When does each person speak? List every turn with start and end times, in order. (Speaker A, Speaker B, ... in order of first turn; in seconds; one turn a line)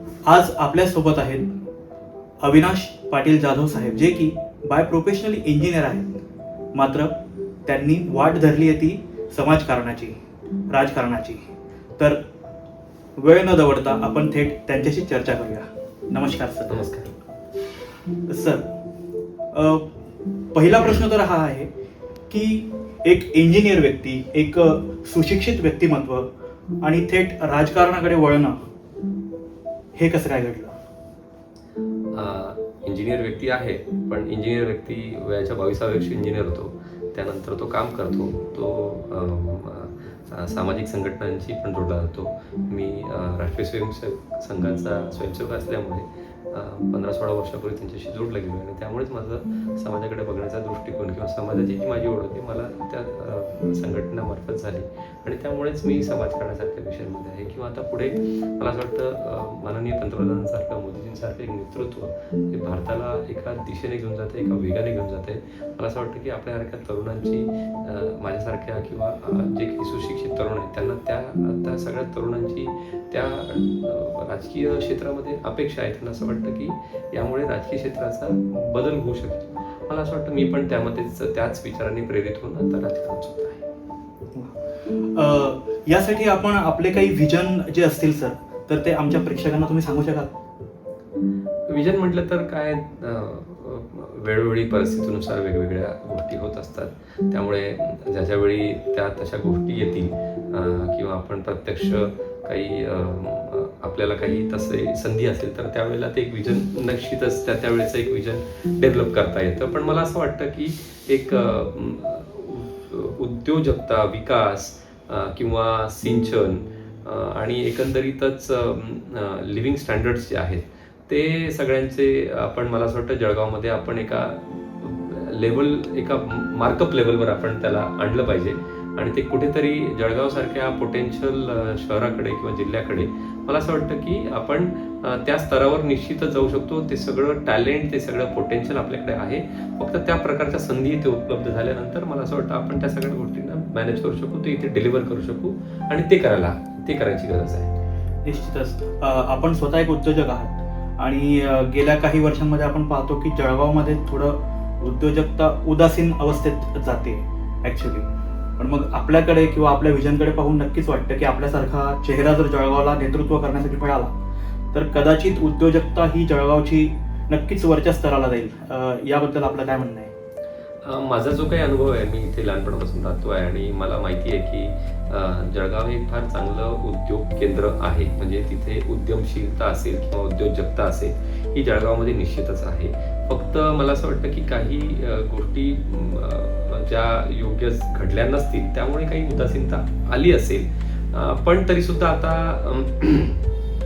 Speaker A: 0.2-1.5
Speaker A: 2.4-6.2
Speaker A: 6.7-10.2
Speaker A: 10.7-12.2
Speaker A: 13.2-16.9
Speaker B: 16.7-17.1
Speaker A: 18.3-18.7
Speaker A: 19.5-19.9
Speaker A: 20.5-21.7
Speaker A: 22.3-26.3
Speaker A: 26.8-28.6
Speaker A: 29.9-30.7
Speaker B: 32.1-83.7
Speaker A: 84.3-90.4
Speaker B: 91.7-147.7
Speaker A: 148.2-158.1
Speaker A: 158.6-164.1
Speaker A: 164.7-170.1
Speaker B: 170.8-193.4